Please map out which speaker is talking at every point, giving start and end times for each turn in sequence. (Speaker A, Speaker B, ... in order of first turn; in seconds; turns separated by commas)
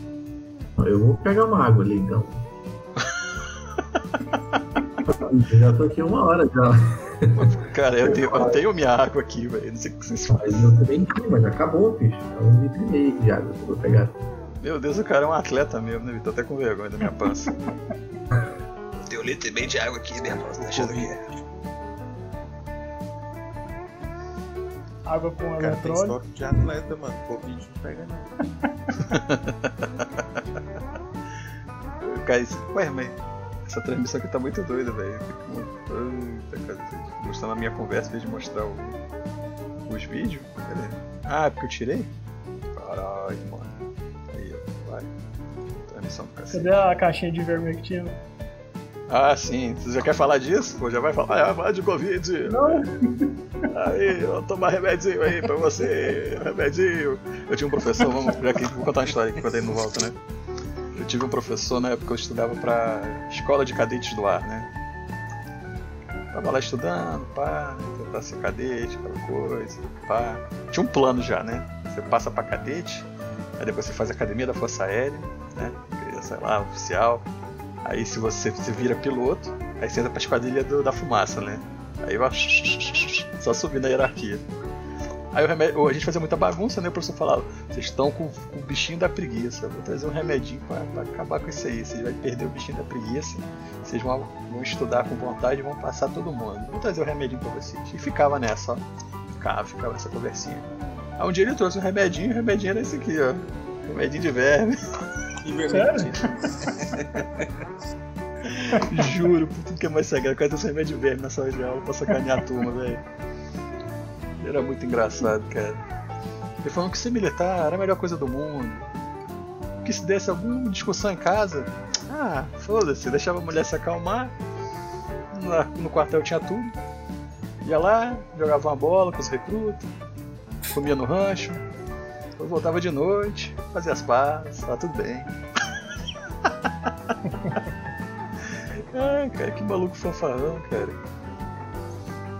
Speaker A: 0.8-2.4, Speaker B: 4.3-4.5, Speaker A: 5.1-7.3, Speaker B: 7.3-10.7, Speaker A: 8.0-8.6, Speaker A: 10.3-14.3, Speaker B: 14.6-17.5, Speaker C: 19.0-21.2, Speaker D: 20.6-21.0, Speaker E: 25.1-26.1, Speaker D: 25.6-28.3, Speaker E: 28.6-29.1, Speaker B: 29.1-30.4, Speaker B: 32.0-39.0, Speaker B: 39.9-42.1, Speaker B: 42.8-43.8, Speaker B: 44.3-45.1, Speaker B: 45.9-46.8, Speaker E: 46.5-48.2, Speaker B: 49.1-52.9, Speaker E: 52.5-53.3, Speaker B: 53.7-60.1, Speaker B: 60.9-64.7, Speaker B: 66.3-73.1, Speaker B: 73.6-77.3, Speaker B: 77.8-84.5, Speaker B: 85.3-104.8, Speaker D: 105.4-107.5, Speaker E: 105.7-106.1, Speaker B: 108.5-113.0, Speaker B: 114.4-115.8, Speaker B: 116.6-118.9, Speaker B: 119.8-124.3, Speaker B: 125.3-126.7, Speaker B: 127.6-129.9, Speaker B: 130.7-131.6, Speaker B: 132.4-135.3, Speaker B: 138.9-141.0